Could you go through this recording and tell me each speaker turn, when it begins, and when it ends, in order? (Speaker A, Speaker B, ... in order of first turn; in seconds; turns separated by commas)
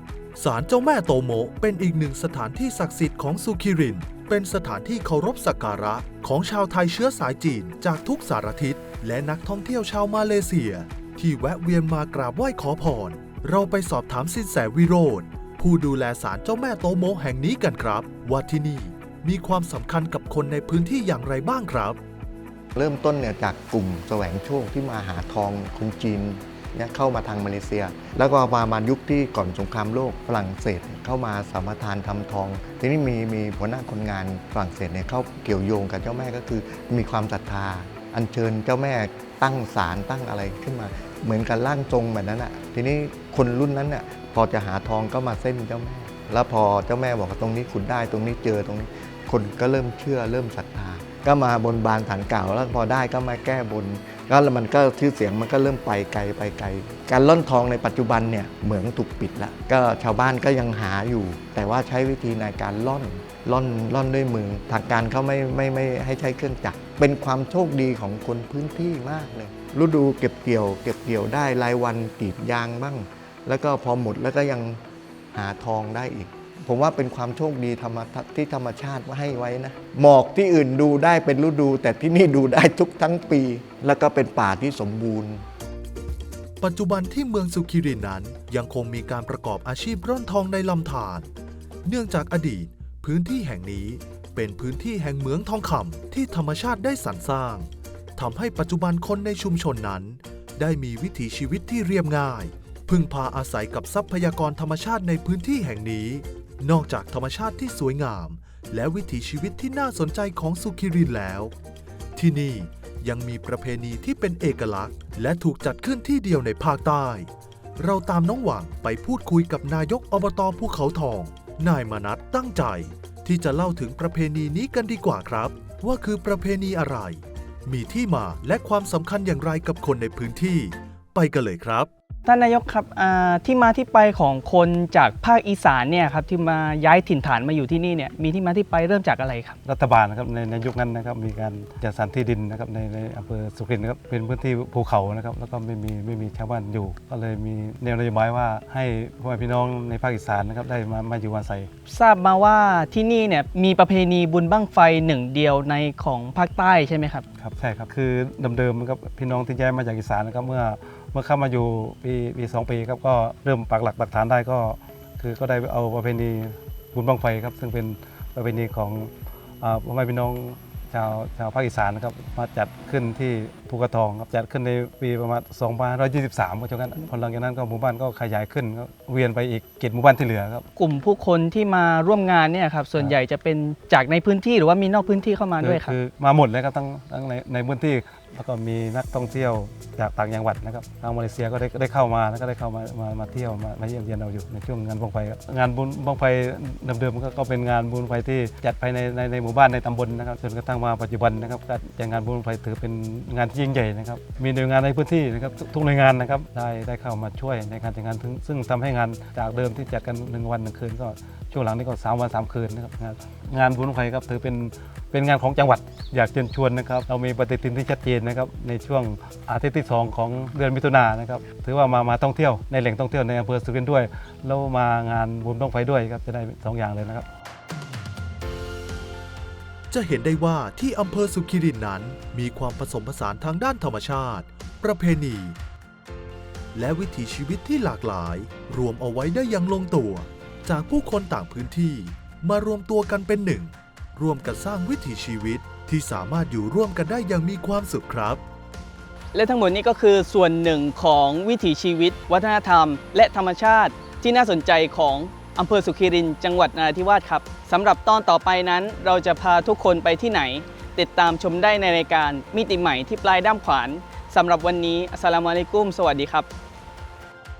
Speaker A: 0.3-22.0, Speaker B: 22.7-85.4, Speaker A: 86.6-91.3, Speaker A: 91.8-111.5, Speaker A: 112.2-131.9, Speaker C: 132.2-139.6, Speaker D: 139.6-151.7, Speaker C: 151.9-157.2, Speaker D: 157.4-180.7, Speaker C: 180.8-185.9, Speaker D: 185.6-227.2, Speaker A: 229.9-235.6, Speaker A: 236.7-248.4, Speaker C: 249.3-266.5